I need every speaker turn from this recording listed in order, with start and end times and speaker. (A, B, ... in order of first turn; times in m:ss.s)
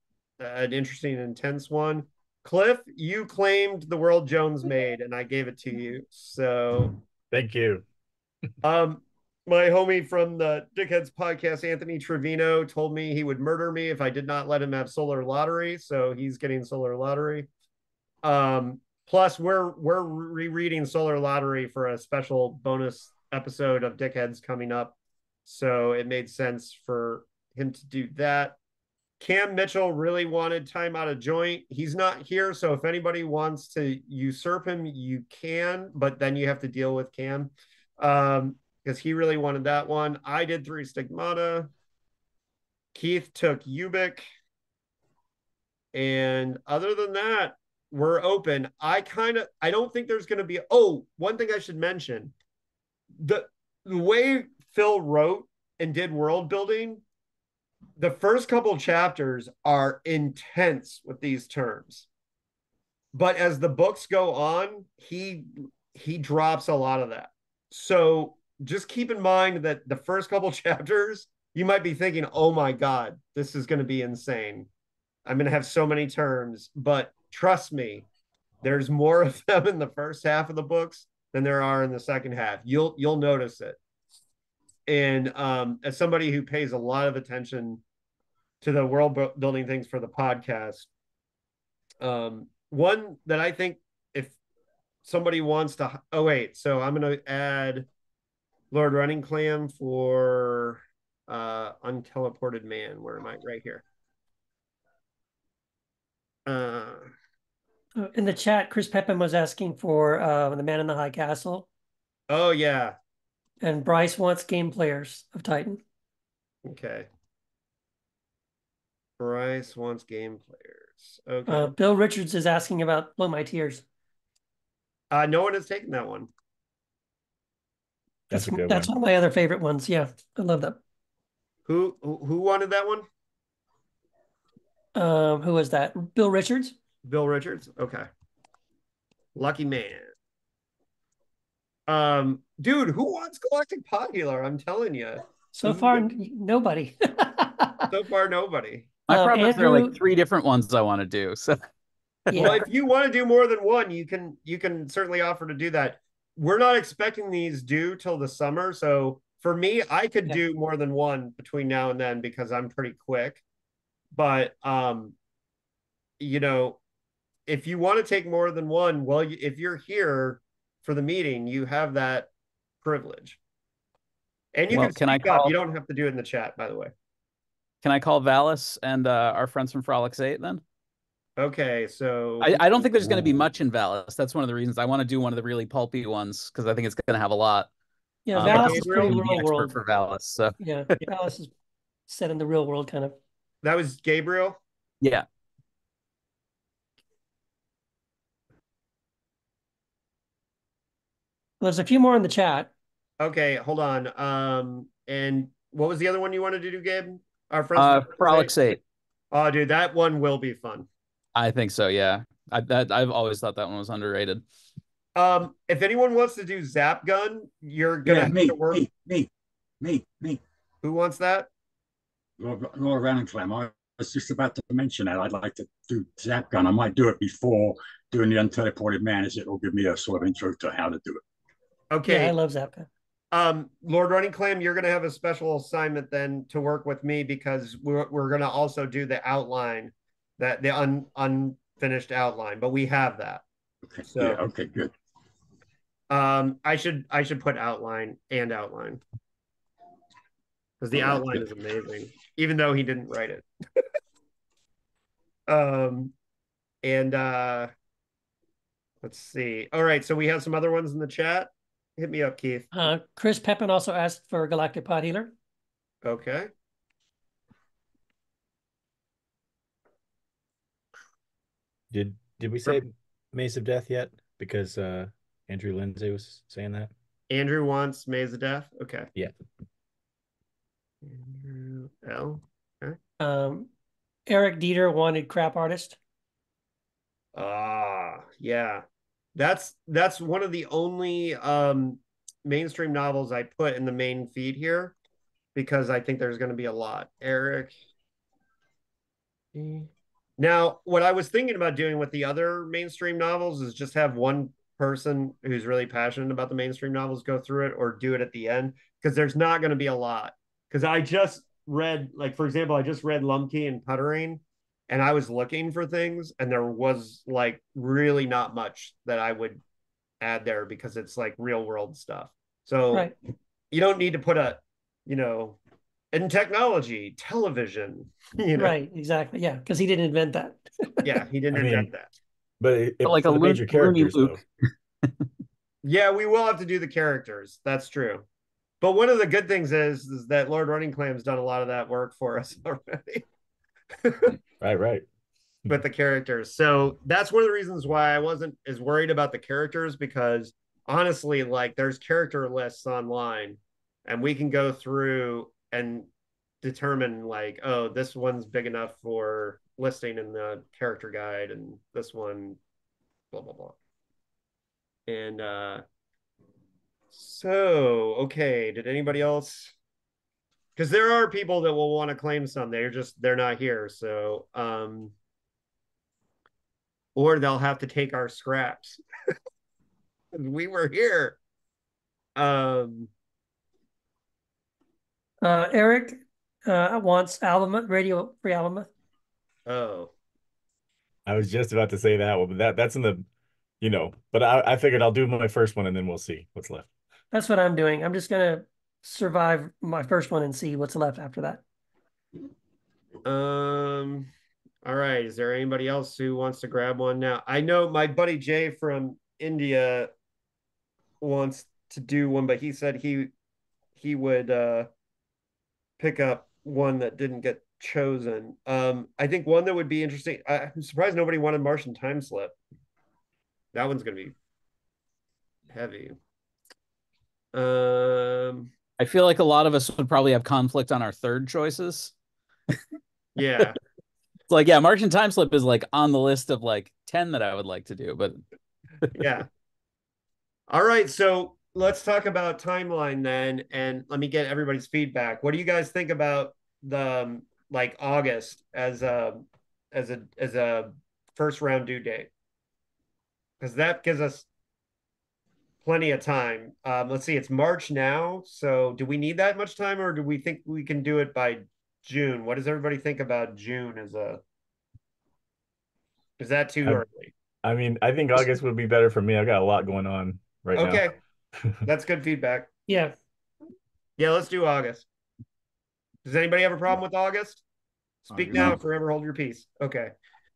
0:00.4-0:07.0 A
0:07.3-0:07.8 B
0:08.6-0:17.5 A
0:18.2-0:28.6 A
0:29.2-0:41.7 A
0:42.9-0:44.2 A
0:45.9-0:52.3 A
0:53.2-0:57.0 A
0:58.0-1:02.1 A
1:03.1-1:14.7 A
1:15.2-1:18.0 A
1:18.6-1:23.8 A
1:24.9-1:27.8 A
1:28.6-1:30.9 A
1:32.0-1:34.4 A
1:35.0-1:37.9 A
1:38.7-1:43.8 A
1:46.4-1:47.1 A
1:48.0-1:51.6 C
1:52.3-1:53.0 A
1:53.6-1:55.8 C
1:56.6-1:57.1 A
1:59.2-2:01.7 A
2:01.5-2:03.8 C
2:05.1-2:06.3 A
2:08.3-2:10.8 C
2:08.3-2:08.9 B
2:11.6-2:13.0 A
2:14.9-2:16.8 C
2:17.0-2:18.1 A
2:19.3-2:20.1 A
2:21.9-2:26.0 A
2:25.5-2:27.9 C
2:27.9-2:28.9 A
2:29.1-2:31.6 D
2:29.1-2:29.9 C
2:32.3-2:32.6 C
2:32.3-2:32.6 D
2:32.4-2:43.4 A
2:44.1-2:45.1 A
2:46.2-2:46.8 A
2:47.5-2:52.3 A
2:52.8-2:53.4 A
2:54.5-2:56.9 A
2:54.7-2:55.5 D
2:57.8-3:00.6 D
3:01.4-3:02.6 A
3:02.4-3:07.7 D
3:03.0-3:03.3 B
3:08.2-3:09.7 C
3:08.3-3:11.0 D
3:08.4-3:09.2 A
3:10.6-3:11.5 C
3:12.1-3:13.2 C
3:13.6-3:14.6 A
3:15.0-3:15.2 D
3:21.6-3:22.7 C
3:23.2-3:28.6 A
3:27.8-3:28.8 D
3:29.3-3:30.9 A
3:31.3-3:34.4 D
3:35.2-3:38.8 A
3:38.0-3:39.3 E
3:39.8-3:40.4 E
3:40.8-3:41.5 A
3:42.4-3:51.2 E
3:51.9-3:52.3 A
3:52.0-3:52.9 C
3:53.3-4:03.4 A
4:03.9-4:04.9 E
4:04.0-4:04.4 A
4:06.1-4:09.0 A
4:10.8-4:13.4 A
4:10.9-4:11.4 E
4:15.5-4:16.1 A
4:16.8-4:17.7 A
4:19.0-4:22.7 A
4:22.7-4:25.3 C
4:26.0-4:26.5 A
4:31.9-4:36.9 B
4:37.3-4:39.1 A
4:41.0-4:43.0 A
4:43.2-4:43.7 C
4:44.3-4:46.0 C
4:47.3-4:48.8 A
4:49.3-4:55.0 A
4:55.5-4:57.7 A
4:59.5-5:19.6 A
5:20.2-5:23.1 A
5:23.7-5:25.6 A
5:26.1-5:28.7 A
5:28.5-5:31.2 C
5:31.0-5:32.1 A
5:31.5-5:31.9 B
5:32.6-5:34.4 B
5:33.0-5:34.4 D
5:35.8-5:38.2 A
5:38.8-5:43.2 A
5:44.0-5:44.3 A
5:44.6-5:45.0 B
5:45.7-5:56.1 A
5:56.6-6:02.6 A
6:03.3-6:03.8 A
6:05.1-6:05.8 A
6:07.1-6:09.7 A
6:10.8-6:15.1 A
6:17.1-6:19.0 A
6:20.3-6:21.4 A
6:22.4-6:23.1 A
6:25.4-6:28.9 C
6:29.7-6:30.1 A
6:31.3-6:33.2 B
6:33.8-6:36.9 B
6:37.3-6:41.6 C
6:43.2-6:44.3 A
6:44.8-6:50.1 A
6:51.2-6:53.3 A
6:54.0-6:54.9 A
6:56.0-7:02.5 A
7:03.7-7:04.3 A
7:05.7-7:06.2 A
7:07.5-7:08.7 A
7:09.0-7:12.1 D
7:13.4-7:13.8 A
7:14.5-7:18.4 D
7:19.1-7:19.5 A
7:20.7-7:32.3 A
7:33.6-7:34.5 A
7:35.8-7:44.4 A
7:46.4-7:47.3 A
7:47.6-7:51.0 B
7:50.7-7:51.2 A
7:51.8-7:52.7 A
7:52.9-7:53.2 C
7:54.2-7:55.1 A
7:56.2-7:57.6 A
7:58.3-8:00.1 A
7:58.3-7:58.8 B